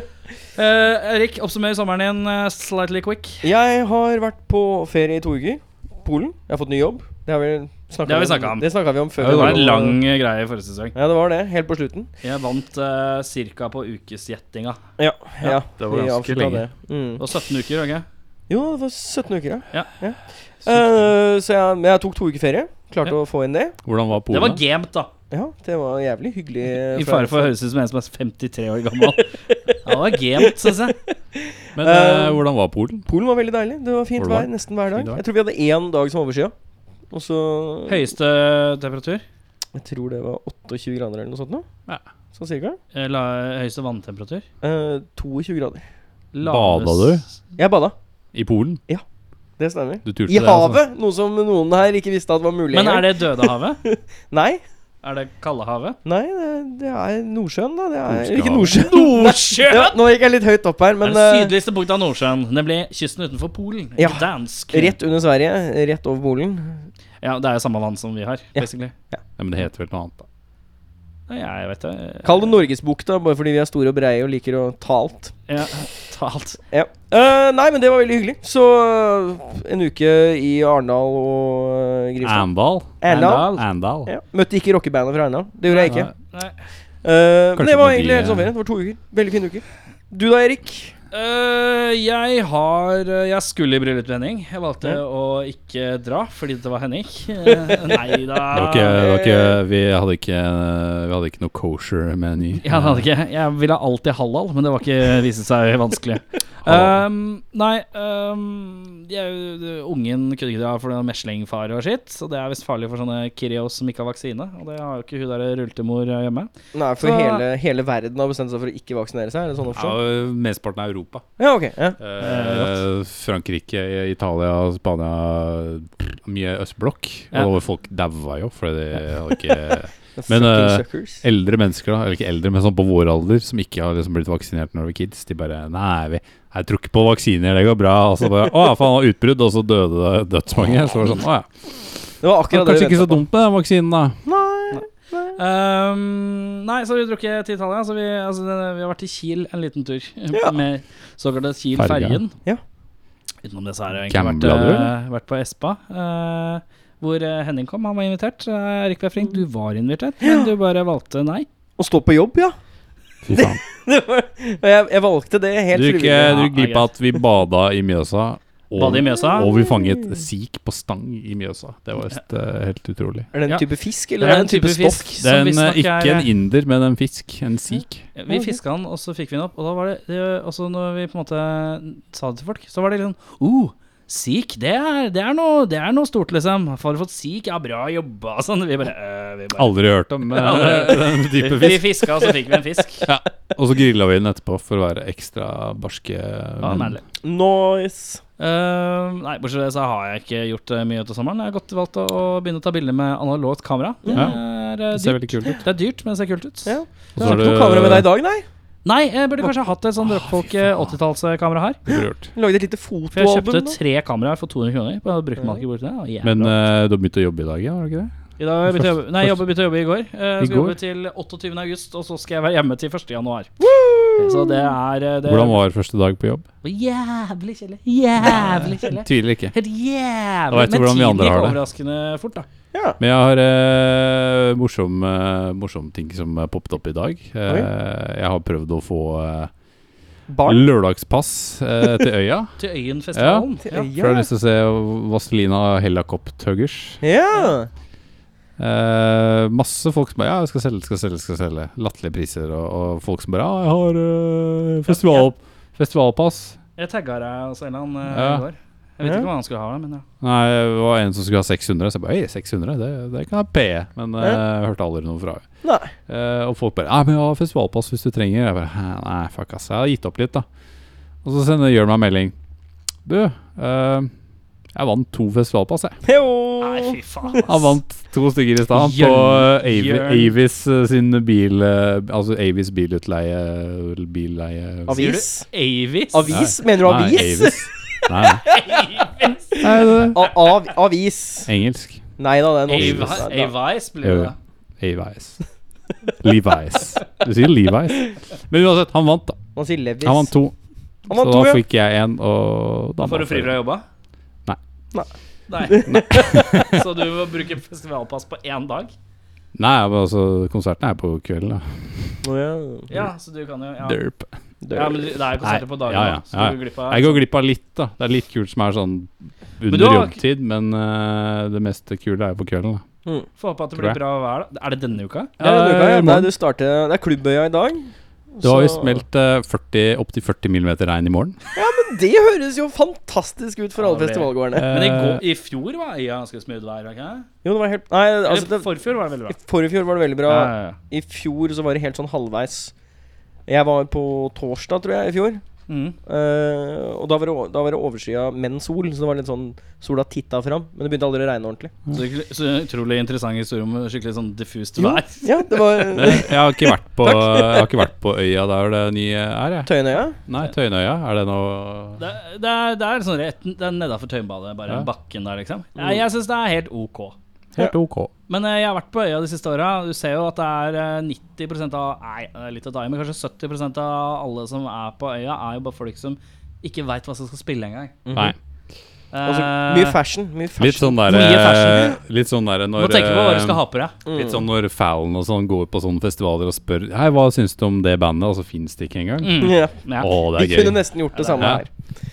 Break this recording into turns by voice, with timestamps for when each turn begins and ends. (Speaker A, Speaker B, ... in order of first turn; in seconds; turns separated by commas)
Speaker A: 0.5-3.5, Speaker B: 3.4-10.0, Speaker A: 8.1-8.7, Speaker A: 9.2-10.9, Speaker C: 9.2-9.7, Speaker B: 10.9-12.1, Speaker A: 12.2-14.8, Speaker B: 15.0-17.2, Speaker C: 15.8-16.6, Speaker A: 17.2-18.0, Speaker B: 18.5-23.7, Speaker C: 20.6-21.0, Speaker C: 23.8-24.6, Speaker A: 24.3-25.1, Speaker B: 25.3-27.5, Speaker A: 26.9-31.0, Speaker B: 31.3-32.4, Speaker C: 31.7-33.0, Speaker B: 33.1-36.5, Speaker C: 34.2-35.2, Speaker B: 37.1-38.0, Speaker A: 37.9-39.2, Speaker B: 39.7-41.6, Speaker B: 42.3-42.8, Speaker A: 42.9-44.4, Speaker B: 44.6-45.8, Speaker A: 46.3-47.3, Speaker C: 46.4-47.2, Speaker B: 47.6-47.9, Speaker C: 48.3-48.8, Speaker B: 49.6-54.6, Speaker C: 50.0-50.8, Speaker A: 52.7-53.8, Speaker A: 55.0-56.0, Speaker B: 56.0-61.5, Speaker C: 58.0-58.8, Speaker A: 58.7-60.0, Speaker A: 61.0-65.0, Speaker B: 64.0-66.9, Speaker A: 67.2-68.9, Speaker B: 68.5-69.2, Speaker C: 69.4-70.2, Speaker A: 71.3-72.5, Speaker B: 72.2-75.3, Speaker A: 75.5-76.6, Speaker B: 76.7-82.5, Speaker C: 82.2-84.1, Speaker B: 83.0-83.5, Speaker A: 83.0-83.6, Speaker B: 84.0-86.1, Speaker A: 85.7-86.5, Speaker B: 87.0-90.9, Speaker C: 87.5-88.5, Speaker A: 91.1-99.0, Speaker C: 98.5-103.0, Speaker A: 102.6-117.4, Speaker C: 106.6-107.0, Speaker B: 116.7-120.0, Speaker C: 119.7-121.2, Speaker B: 121.4-122.0, Speaker C: 122.0-144.2, Speaker A: 122.2-122.8, Speaker B: 130.2-131.2, Speaker B: 142.2-143.2, Speaker B: 144.2-145.4, Speaker A: 144.7-152.3, Speaker C: 151.8-152.2, Speaker A: 153.4-161.5, Speaker C: 154.1-154.9, Speaker B: 160.2-160.5, Speaker B: 161.8-162.6, Speaker C: 163.2-163.6, Speaker B: 163.3-166.5, Speaker C: 165.7-173.3, Speaker A: 166.3-166.9, Speaker A: 168.8-169.5, Speaker B: 169.0-170.1, Speaker B: 173.3-175.1, Speaker A: 174.2-176.3, Speaker C: 175.2-178.1, Speaker A: 178.2-189.7, Speaker B: 178.3-178.6, Speaker C: 189.6-192.0, Speaker A: 190.3-193.1, Speaker C: 193.0-196.9, Speaker A: 196.6-197.0, Speaker B: 197.2-198.2, Speaker A: 198.4-207.4, Speaker B: 204.0-204.3, Speaker C: 204.1-205.6, Speaker B: 206.6-208.4, Speaker C: 207.2-208.1, Speaker A: 208.8-211.8, Speaker C: 211.8-212.3, Speaker B: 211.9-213.8, Speaker A: 213.1-216.6, Speaker C: 216.2-218.1, Speaker A: 218.4-223.5, Speaker C: 218.7-219.4, Speaker C: 220.4-220.8, Speaker B: 223.6-224.7, Speaker A: 224.2-225.6, Speaker C: 225.2-226.4, Speaker A: 226.6-232.5, Speaker C: 228.2-229.5, Speaker C: 230.5-231.6, Speaker B: 232.7-233.0, Speaker C: 233.0-239.5, Speaker B: 240.3-240.7, Speaker C: 240.4-242.5, Speaker A: 242.6-243.9, Speaker C: 243.1-247.0, Speaker B: 243.6-244.3, Speaker B: 247.0-247.7, Speaker C: 248.6-256.6, Speaker A: 254.9-255.2, Speaker A: 256.8-260.0, Speaker C: 258.1-258.4, Speaker B: 259.0-259.3, Speaker C: 260.2-265.5, Speaker B: 265.6-265.9, Speaker C: 266.1-270.4, Speaker C: 271.2-272.3, Speaker C: 273.0-274.1, Speaker C: 274.7-276.0, Speaker B: 276.0-277.0, Speaker A: 276.6-277.8, Speaker C: 277.4-285.1, Speaker A: 278.7-280.3, Speaker B: 284.9-285.5, Speaker A: 284.9-286.3, Speaker B: 286.1-287.7, Speaker C: 286.3-288.4, Speaker A: 288.4-289.6, Speaker B: 289.6-291.5, Speaker C: 289.6-290.2, Speaker C: 291.4-292.0, Speaker B: 292.2-293.5, Speaker A: 292.7-294.4, Speaker C: 292.7-293.3, Speaker C: 294.0-295.4, Speaker C: 296.2-299.4, Speaker B: 299.6-300.3, Speaker C: 300.0-300.5, Speaker C: 301.1-303.6, Speaker B: 301.1-301.6, Speaker A: 303.0-303.8, Speaker A: 305.5-308.9, Speaker B: 305.7-306.0, Speaker C: 305.9-306.8, Speaker C: 309.5-312.2, Speaker B: 312.2-312.9, Speaker A: 312.9-314.0, Speaker C: 313.8-314.3, Speaker B: 314.6-315.1, Speaker A: 314.7-317.2, Speaker C: 315.4-322.8, Speaker A: 319.7-320.2, Speaker A: 323.4-325.5, Speaker C: 325.4-326.3, Speaker B: 325.4-329.0, Speaker C: 328.4-331.4, Speaker B: 331.5-334.6, Speaker A: 333.8-337.3, Speaker C: 334.5-335.2, Speaker B: 337.4-338.7, Speaker A: 338.2-339.4, Speaker B: 339.3-342.7, Speaker A: 340.3-340.8, Speaker B: 343.5-345.4, Speaker A: 345.7-346.0, Speaker B: 346.1-351.8, Speaker A: 351.9-355.9, Speaker B: 354.8-357.7, Speaker C: 355.9-359.7, Speaker B: 359.6-360.2, Speaker C: 360.2-362.0, Speaker A: 362.0-367.1, Speaker C: 367.5-368.1, Speaker A: 368.3-378.0, Speaker B: 378.0-378.3, Speaker A: 379.1-380.0, Speaker B: 379.2-381.2, Speaker C: 380.6-383.6, Speaker A: 381.1-382.0, Speaker A: 382.8-383.9, Speaker B: 384.0-384.4, Speaker C: 384.1-390.8, Speaker A: 389.2-390.1, Speaker B: 389.4-389.8, Speaker B: 390.3-391.7, Speaker A: 391.1-391.6, Speaker C: 391.4-391.6